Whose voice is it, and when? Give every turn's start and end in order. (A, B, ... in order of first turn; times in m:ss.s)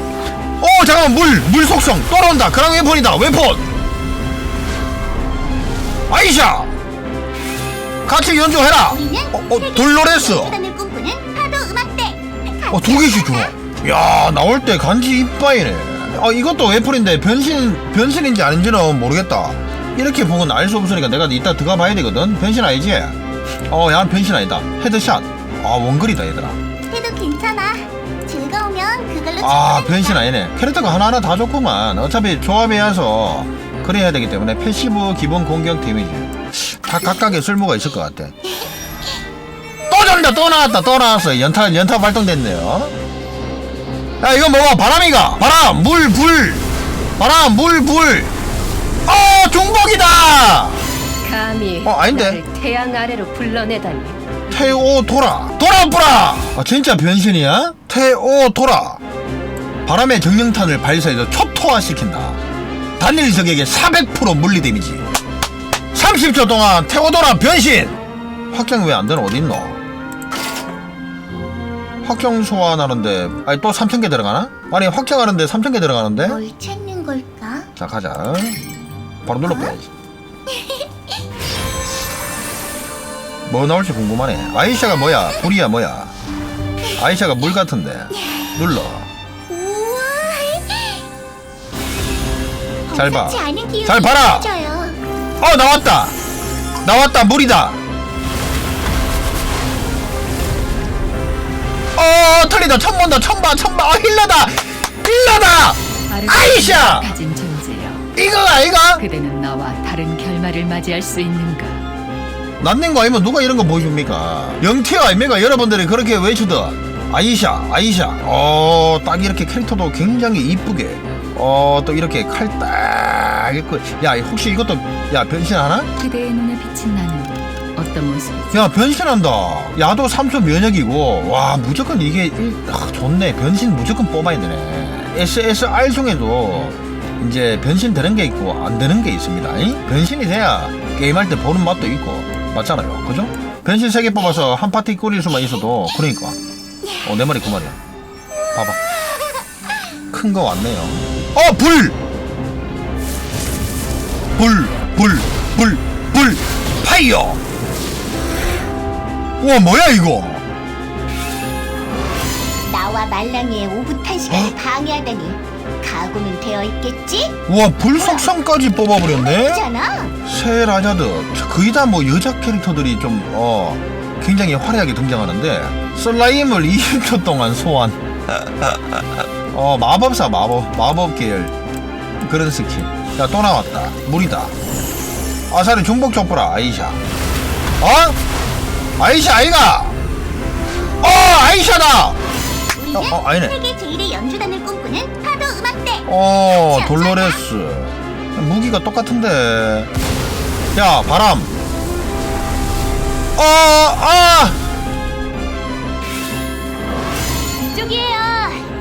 0:00.6-0:03.6 A
0:06.1-0:06.7 A
0:08.1-0:10.6 A
0:08.9-0:13.5 B
0:12.7-0:23.2 A
0:23.7-0:26.6 A
0:26.9-0:30.3 B
0:29.4-0:38.4 A
0:39.9-0:42.9 A
0:44.2-0:46.6 A
0:47.2-0:48.3 A
0:49.1-0:50.8 A
0:51.2-0:54.7 C
0:51.8-0:52.4 A
0:54.5-0:59.0 A
0:59.9-1:02.4 A
1:03.0-1:05.1 A
1:05.9-1:08.0 A
1:08.5-1:09.8 A
1:12.0-1:16.4 A
1:16.2-1:17.7 B
1:17.8-1:18.6 A
1:19.2-1:19.9 A
1:19.4-1:19.7 B
1:20.5-1:21.0 B
1:23.5-1:26.1 A
1:27.0-1:29.1 A
1:28.2-1:28.5 B
1:29.5-1:31.0 B
1:32.9-1:35.0 B
1:32.9-1:34.5 A
1:35.4-1:36.2 A
1:36.8-1:37.8 A
1:42.0-1:47.2 A
1:46.1-1:48.0 C
1:48.2-1:49.0 A
1:49.0-1:51.8 C
1:52.6-2:05.9 A
2:06.0-2:08.5 C
2:08.5-2:26.4 A
2:27.0-2:27.8 A
2:28.5-2:28.8 A
2:30.1-2:32.0 A
2:34.4-2:37.4 A
2:39.4-2:40.4 A
2:42.7-2:47.3 B
2:44.3-2:44.6 A
2:47.5-2:49.7 A
2:48.0-2:48.3 B
2:48.9-2:50.1 B
2:50.2-2:58.8 A
2:59.5-3:01.5 A
3:02.2-3:04.5 A
3:05.5-3:07.0 A
3:07.8-3:08.2 A
3:09.0-3:10.0 A
3:11.0-3:12.2 A
3:12.8-3:17.4 B
3:12.9-3:13.6 A
3:16.1-3:19.9 A
3:20.8-3:21.6 A
3:23.4-3:24.6 A
3:27.7-3:28.6 C